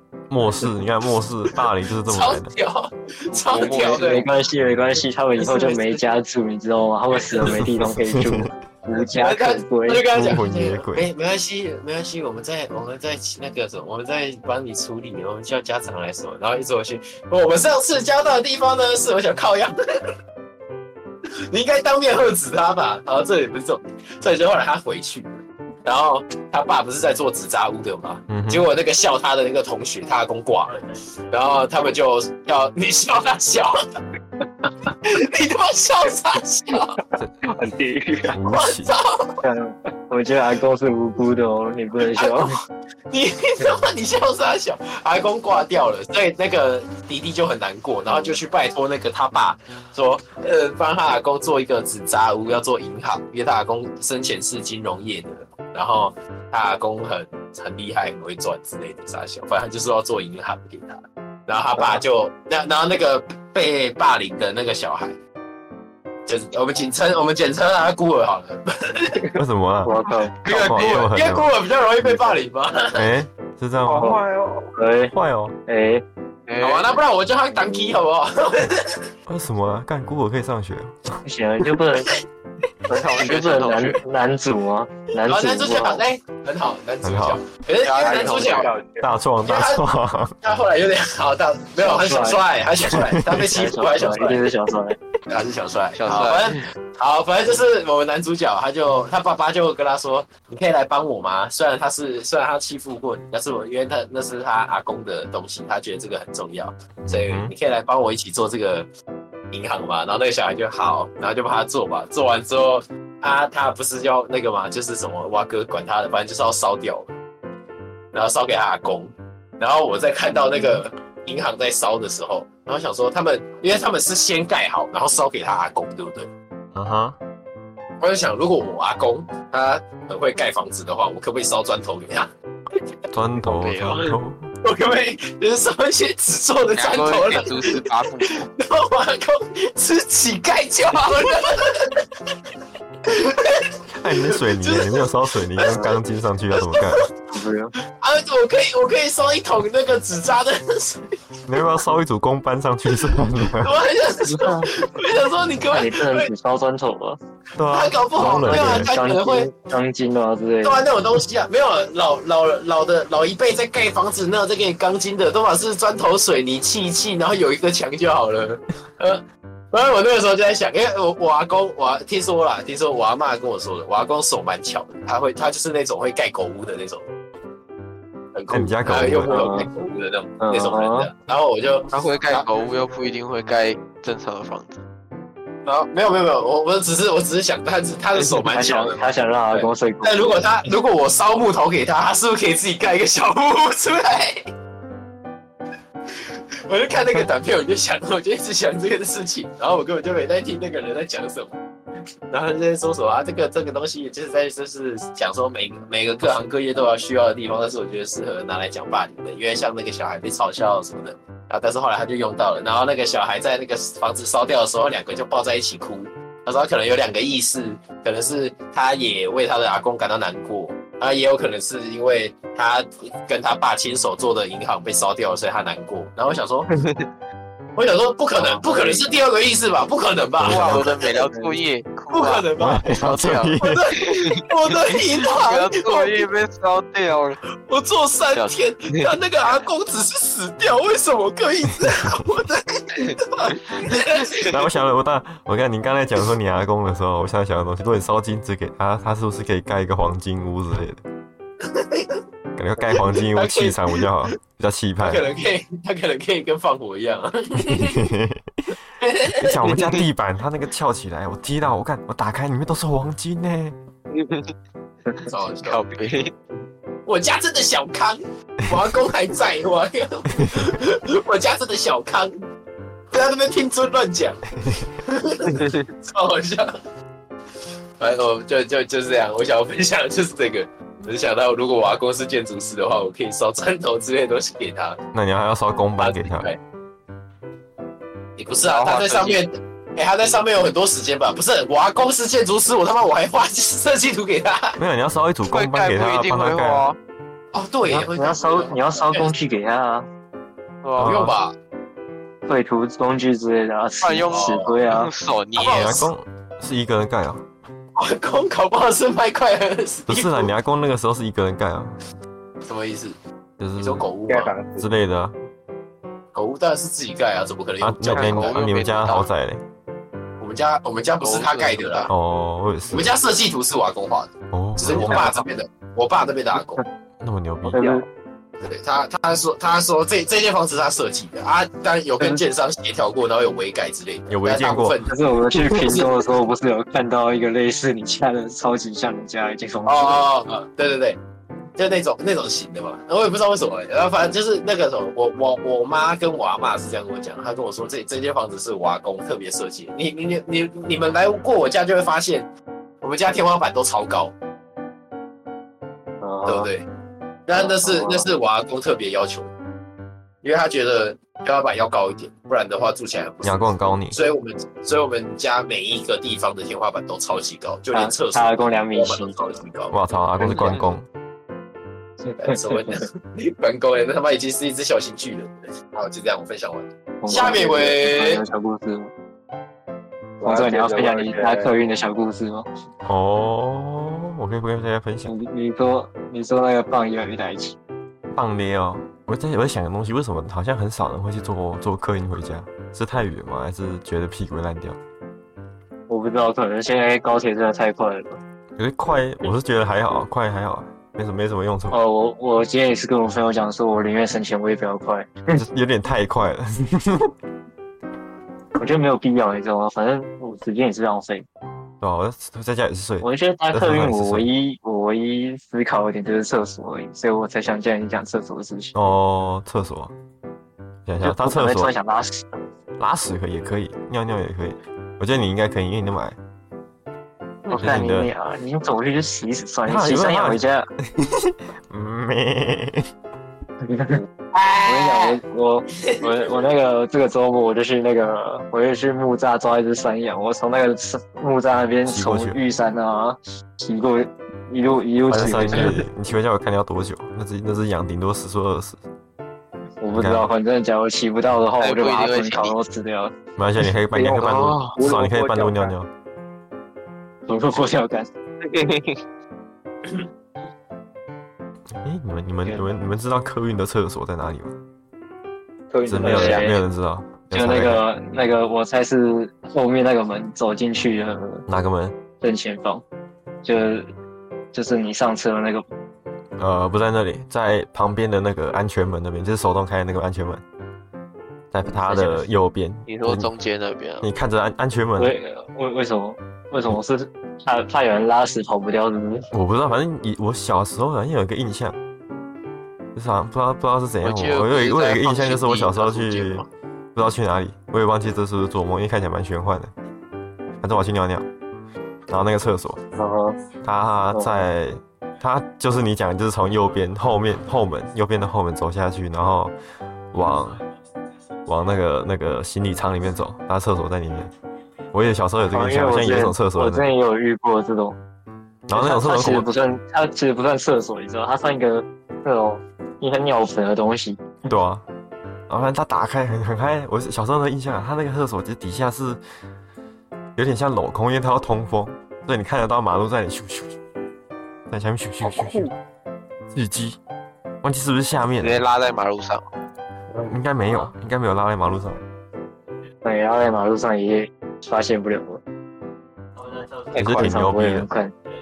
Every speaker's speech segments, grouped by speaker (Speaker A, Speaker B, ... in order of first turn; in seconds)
Speaker A: 0.3-2.5, 7.4-8.5, 10.1-11.1, 28.3-28.7, 38.3-39.0, 69.3-69.9, 70.5-71.5, 73.0-74.2, 75.1-75.6, 79.3-81.2, 87.0-87.4, 89.0-90.4, 92.9-93.5, 107.0-107.5, 126.7-127.2, 133.1-134.5, 144.0-147.1, 151.5-153.7, 157.6-158.9, 178.5-179.5, 230.4-230.9, 232.6-233.9, 241.8-242.2, 244.4-251.0, 252.6-255.2, 257.7-258.7, 259.3-263.8, 285.1-286.5, 294.8-296.9, 301.0-301.4, 305.6-307.4, 310.1-312.0, 313.6-314.1, 314.8-315.4, 317.8-319.6, 322.1-323.1, 324.5-325.4, 327.2-327.8, 334.3-335.0, 335.5-336.0, 363.4-364.2, 369.9-371.1, 383.1-385.3, 388.3-395.0, 398.8-402.0, 405.6-407.3, 412.0-414.5, 418.9-420.1, 421.1-421.9, 423.0-426.4, 427.8-428.3, 429.9-433.1, 442.1-442.6, 445.3-449.0, 450.1-450.5, 453.6-456.1, 461.9-464.7, 466.1-468.0, 471.7-472.2, 476.6-480.6, 481.7-483.5, 484.2-485.4, 489.5-492.0, 493.1-499.9, 500.8-501.4, 502.3-503.0, 503.8-509.7, 510.3-510.8, 511.7-514.5, 515.1-517.1, 518.9-519.7, 524.7-525.0, 525.7-529.4, 530.6-534.0, 534.9-535.9, 536.7-537.2, 537.8-538.8, 540.5-542.2, 547.1-548.1
Speaker B: 2.0-4.3, 5.4-6.1, 7.1-7.5, 8.9-19.8, 21.5-33.8, 34.6-37.0, 38.5-39.4, 42.1-42.5, 43.1-65.2, 66.3-69.4, 70.5-73.1, 76.6-79.1, 85.3-88.7, 89.5-89.8, 90.4-94.5, 95.3-108.9, 109.5-117.1, 118.1-126.3, 128.0-132.3, 134.6-142.1, 143.1-146.0, 146.5-147.1, 148.0-151.8, 152.9-156.3, 157.7-159.5, 160.6-177.1, 178.3-182.5, 185.6-194.4, 196.1-201.6, 202.3-226.7, 227.8-231.3, 232.1-232.9, 233.6-236.3, 237.7-244.6, 251.6-252.2, 252.9-254.3, 255.0-258.1, 259.0-259.7, 265.3-265.8, 267.1-272.3, 273.1-276.7, 278.0-285.0, 286.0-286.6, 288.4-294.8, 297.5-299.3, 301.0-301.6, 304.3-304.8, 305.6-306.1, 308.0-310.5, 312.6-313.2, 313.8-314.5, 316.4-318.6, 320.4-322.1, 322.9-326.8, 328.6-336.1, 339.9-341.2, 341.8-352.5, 353.0-354.3, 356.5-356.9, 357.5-359.5, 360.4-370.7, 372.4-378.4, 434.5-435.4
Speaker C: 3.3-4.2, 37.4-38.4, 73.8-74.8, 88.0-89.1, 314.3-314.9, 324.9-325.3, 327.7-328.1, 380.4-381.8, 454.1-455.9, 465.9-466.7, 535.4-535.9
Speaker D: 3.5-10.1, 39.4-42.5, 69.8-70.3, 74.0-74.2, 74.8-75.1, 75.7-76.0, 77.6-78.0, 81.2-82.2, 82.9-86.0, 91.8-92.4, 93.5-95.0, 120.5-120.8, 147.3-147.7, 154.3-154.7, 155.7-157.2, 158.2-160.8, 179.3-179.7, 180.4-181.1, 188.5-190.5, 228.3-229.2, 231.3-231.6, 297.9-300.1, 302.5-305.1, 327.6-328.1, 335.1-340.3, 356.2-356.7, 357.6-358.3, 367.9-369.4, 372.2-372.7, 377.2-379.1, 380.4-382.7, 385.2-387.8, 396.1-398.4, 401.9-405.6, 408.8-411.5, 413.2-419.0, 421.2-422.6, 427.7-430.9, 433.8-434.2, 434.9-446.0, 450.0-453.3, 457.5-458.3, 466.2-466.8, 467.5-471.6, 472.4-473.0, 473.6-474.1, 474.7-475.8, 481.8-482.5, 485.2-489.5, 503.2-503.6, 515.7-518.2, 518.9-524.5, 543.2-545.6, 547.1-548.3
Speaker E: 70.4-71.2, 76.5-77.0, 82.9-84.0, 87.8-88.7, 96.0-96.6, 133.4-134.2, 136.7-138.5, 181.9-184.8, 226.8-227.1, 230.4-237.4, 238.3-239.1, 259.7-260.0, 264.1-264.5, 265.6-266.3, 275.6-275.8, 288.6-289.4, 295.5-297.0, 300.8-301.2, 304.0-306.1, 318.1-319.3, 321.2-322.1, 451.8-452.8, 454.4-454.9, 458.6-459.2, 483.1-484.3, 494.2-496.7, 538.6-539.6